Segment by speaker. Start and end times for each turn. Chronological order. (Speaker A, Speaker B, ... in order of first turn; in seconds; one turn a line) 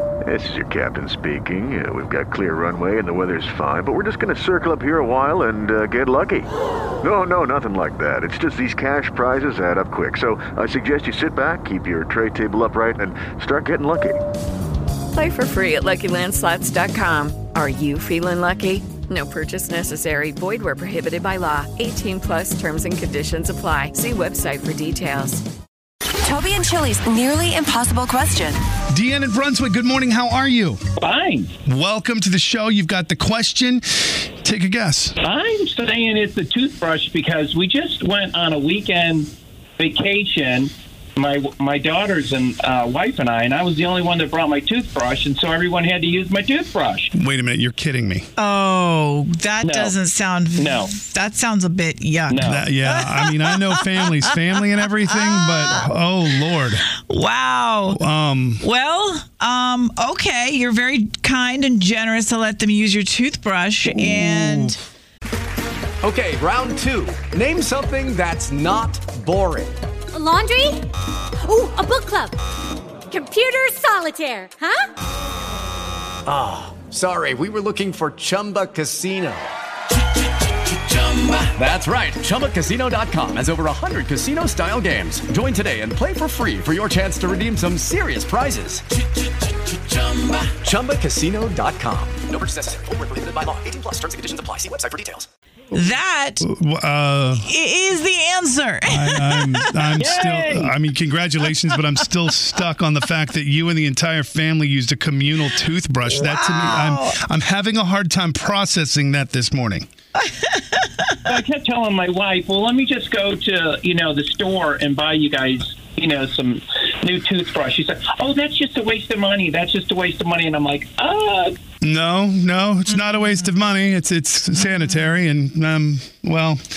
Speaker A: 0.2-6.5
Speaker A: 7.0-14.2
Speaker B: 15.1-25.4
Speaker C: 26.2-28.6
Speaker D: 28.9-30.8
Speaker E: 31.0-31.5
Speaker D: 31.7-35.1
Speaker E: 35.2-47.1
Speaker D: 47.1-48.3
Speaker F: 48.4-55.9
Speaker E: 49.6-50.0
Speaker E: 50.6-51.0
Speaker E: 52.3-52.8
Speaker D: 52.4-56.9
Speaker F: 56.5-58.0
Speaker D: 57.9-58.6
Speaker F: 58.6-64.8
Speaker D: 63.9-64.8
Speaker G: 66.0-69.8
Speaker H: 70.1-72.4
Speaker H: 73.1-74.9
Speaker G: 76.3-79.5
Speaker G: 81.1-88.8
Speaker G: 90.1-95.3
Speaker F: 95.7-96.5
Speaker D: 96.4-97.5
Speaker F: 97.4-99.9
Speaker D: 98.9-109.9
Speaker E: 100.0-100.8
Speaker F: 101.6-102.3
Speaker F: 106.0-107.2
Speaker E: 111.3-121.5
Speaker D: 121.8-126.6